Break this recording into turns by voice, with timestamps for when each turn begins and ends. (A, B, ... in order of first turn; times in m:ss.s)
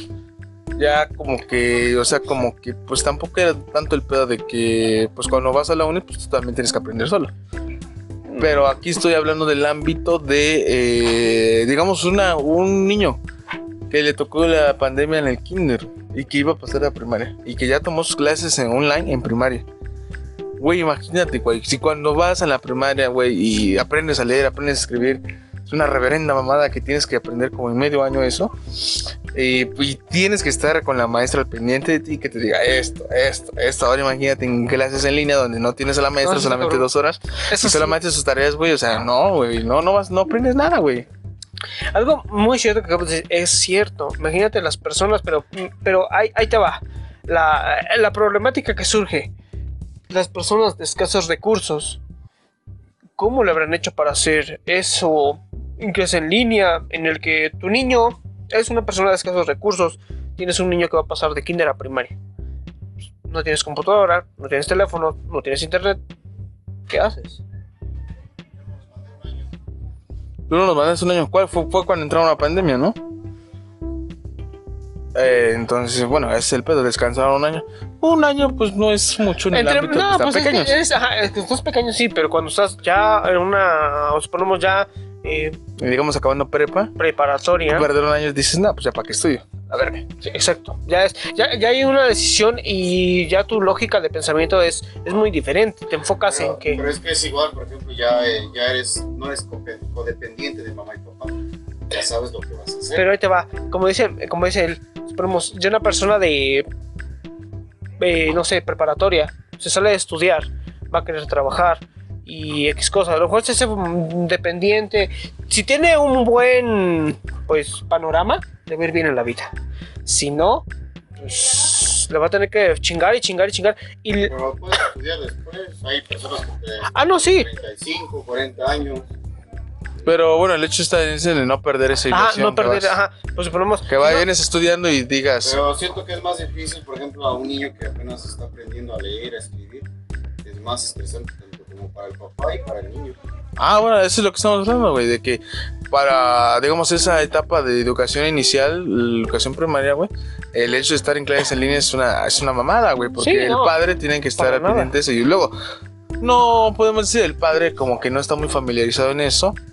0:00.8-0:07.3 A
0:08.3-0:08.7 B
0:08.4-0:13.2 A
0:13.9-0:19.6 A
0:20.6-0:41.1 A
0:36.2-0:36.9 B
0:37.5-0:38.0 B
0:41.9-0:49.3 B
0:50.1-0:52.0 B
0:53.2-1:02.2 B
1:03.3-1:06.0 B
1:06.9-1:07.4 B
1:08.6-1:09.4 C
1:10.5-1:13.0 A
1:15.2-1:20.8 A
1:19.5-1:25.6 B
1:25.8-1:26.9 A
1:27.0-1:27.9 B
1:27.7-1:30.1 A
1:30.2-1:36.8 B
1:36.3-1:41.4 C
1:41.9-1:43.0 C
1:43.0-1:46.7 B
1:48.0-1:59.5 B
2:00.0-2:00.7 B
2:01.2-2:04.3 B
2:04.3-2:09.1 C
2:06.9-2:07.5 B
2:10.0-2:13.0 A
2:12.1-2:14.3 B
2:13.9-2:15.6 A
2:15.4-2:19.9 C
2:20.4-2:23.2 C
2:23.6-2:35.6 A
2:33.2-2:33.8 B
2:34.4-2:34.9 B
2:36.2-2:39.6 A